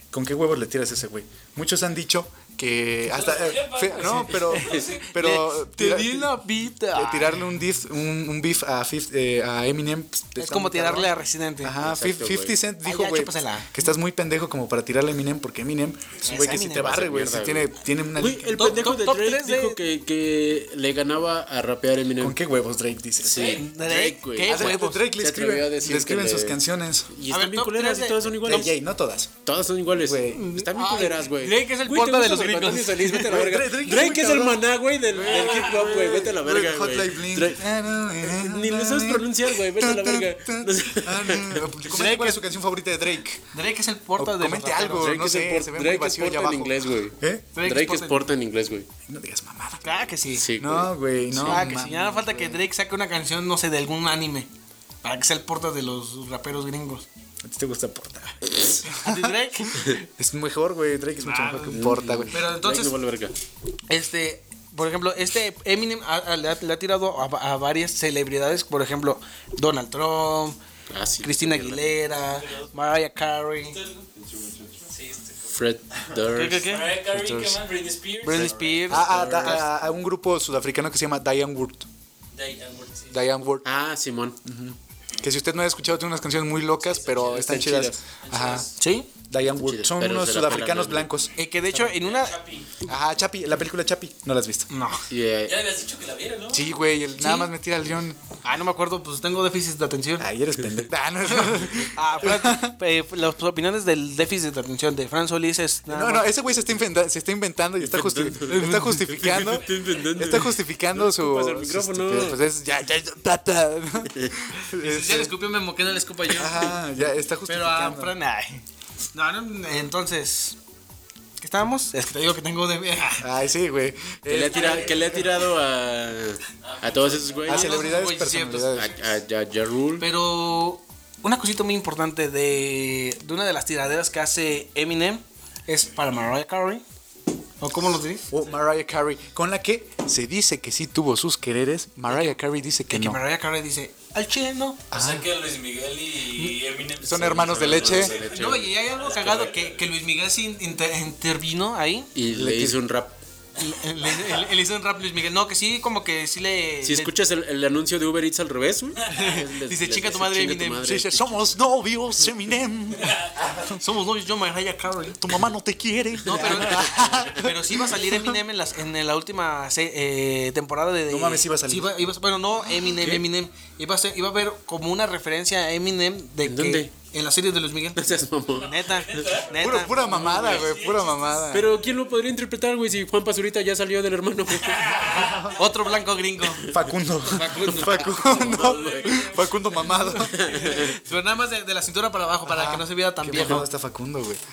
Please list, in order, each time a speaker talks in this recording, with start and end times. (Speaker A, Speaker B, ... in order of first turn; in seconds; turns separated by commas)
Speaker A: 0.1-6.3, Speaker B: 3.0-5.1, Speaker C: 3.9-7.4, Speaker A: 6.9-18.9, Speaker C: 10.4-11.7, Speaker D: 11.8-12.6, Speaker C: 12.8-13.7, Speaker C: 16.2-16.9, Speaker D: 16.5-22.4, Speaker C: 18.5-19.8, Speaker A: 22.2-23.6, Speaker D: 23.2-26.6, Speaker C: 23.4-25.1, Speaker A: 24.4-27.1, Speaker D: 27.1-28.7, Speaker C: 27.3-28.7, Speaker A: 28.4-29.4, Speaker D: 29.4-37.6, Speaker A: 30.0-30.5, Speaker C: 30.3-33.4, Speaker A: 33.2-43.4, Speaker B: 35.3-35.7, Speaker D: 38.2-41.7, Speaker C: 41.8-42.4, Speaker C: 43.5-45.1, Speaker A: 44.1-47.5, Speaker D: 44.9-48.9, Speaker C: 47.5-48.2, Speaker A: 49.1-52.6, Speaker C: 49.8-50.5, Speaker D: 50.3-51.8, Speaker C: 51.4-54.5, Speaker C: 55.0-57.0, Speaker A: 57.4-59.3, Speaker C: 58.9-60.0, Speaker A: 59.9-62.3, Speaker C: 61.2-62.9, Speaker D: 61.7-63.3, Speaker C: 63.9-70.6, Speaker D: 70.9-71.9, Speaker C: 71.2-73.8, Speaker B: 72.2-72.7, Speaker B: 73.7-74.1, Speaker B: 74.8-75.6, Speaker D: 75.5-76.7, Speaker C: 76.3-77.0, Speaker B: 76.6-79.0, Speaker A: 77.1-77.6, Speaker C: 78.2-79.7, Speaker D: 78.3-79.7, Speaker A: 78.9-81.9, Speaker B: 82.3-83.2, Speaker A: 83.1-83.6, Speaker D: 83.6-84.4, Speaker A: 84.4-88.7, Speaker B: 86.8-87.3, Speaker D: 87.1-88.0, Speaker B: 88.2-88.8, Speaker C: 88.8-89.1, Speaker A: 89.3-91.3, Speaker D: 89.6-91.1, Speaker C: 91.3-92.4, Speaker B: 91.7-92.7, Speaker A: 92.8-94.7, Speaker C: 94.7-95.0, Speaker D: 95.1-95.6, Speaker B: 95.5-96.7, Speaker A: 96.5-98.2, Speaker C: 97.2-97.5, Speaker C: 98.4-100.3, Speaker A: 100.2-102.8, Speaker C: 101.4-106.3, Speaker A: 105.9-115.3, Speaker D: 107.8-112.4, Speaker C: 108.5-109.0, Speaker C: 114.6-116.8, Speaker A: 116.3-118.1, Speaker C: 117.5-120.6, Speaker C: 121.4-123.3, Speaker A: 123.2-125.1, Speaker D: 124.3-127.8, Speaker B: 124.5-125.2, Speaker B: 126.6-127.8, Speaker A: 127.5-128.9, Speaker C: 127.5-128.8, Speaker D: 128.7-130.1, Speaker C: 130.0-136.8, Speaker C: 137.6-138.3, Speaker A: 138.3-143.2, Speaker C: 142.9-144.8, Speaker A: 144.9-145.3, Speaker B: 144.9-149.8, Speaker A: 147.0-148.1, Speaker D: 147.2-148.7, Speaker C: 148.2-152.1, Speaker D: 152.1-153.1, Speaker A: 152.3-152.8, Speaker C: 153.6-157.1, Speaker D: 156.8-161.5, Speaker C: 159.1-160.9, Speaker A: 160.8-163.8, Speaker B: 163.0-163.3, Speaker C: 163.7-165.2, Speaker A: 165.2-168.3, Speaker C: 166.2-178.0, Speaker D: 166.4-166.8, Speaker A: 171.1-172.0, Speaker A: 172.8-173.2, Speaker D: 176.4-176.9, Speaker D: 178.0-179.3, Speaker C: 178.6-180.0, Speaker B: 178.6-182.0, Speaker A: 179.6-181.7, Speaker D: 179.9-180.7, Speaker D: 181.5-185.3, Speaker B: 184.6-185.8, Speaker A: 185.1-185.5, Speaker C: 185.5-186.7, Speaker A: 186.7-190.3, Speaker C: 187.2-188.6, Speaker D: 187.7-189.3, Speaker B: 188.2-190.9, Speaker D: 190.2-191.0, Speaker C: 190.5-193.7, Speaker A: 192.5-194.4, Speaker D: 193.3-193.6